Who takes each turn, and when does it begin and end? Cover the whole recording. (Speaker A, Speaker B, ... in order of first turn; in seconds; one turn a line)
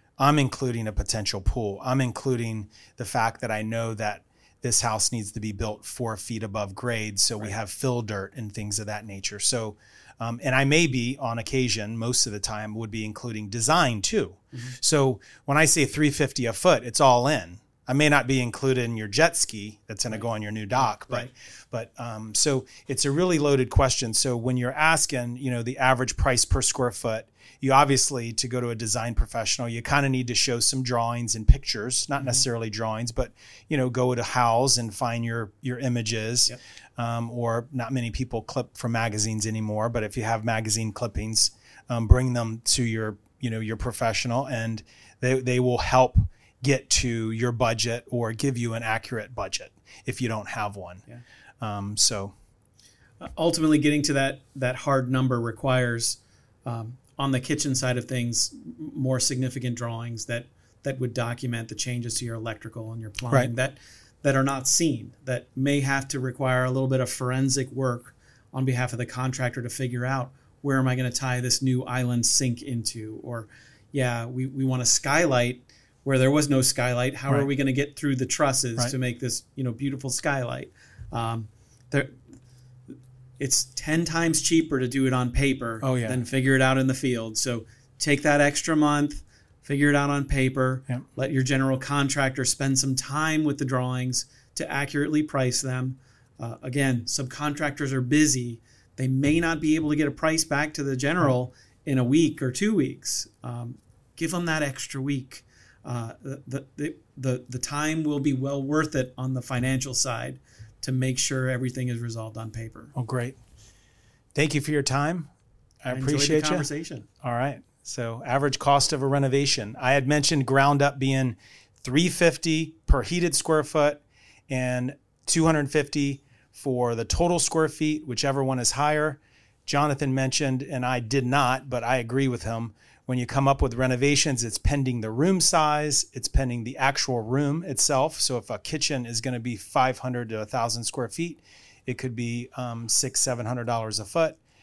Speaker A: 0.2-51.0
Speaker B: 20.9-21.3
Speaker A: 51.6-52.3
Speaker B: 53.2-82.2
Speaker B: 83.4-112.9
Speaker A: 85.8-86.2
Speaker A: 113.0-113.4
Speaker A: 114.3-115.3
Speaker A: 115.8-116.7
Speaker B: 115.9-117.1
Speaker A: 117.2-144.4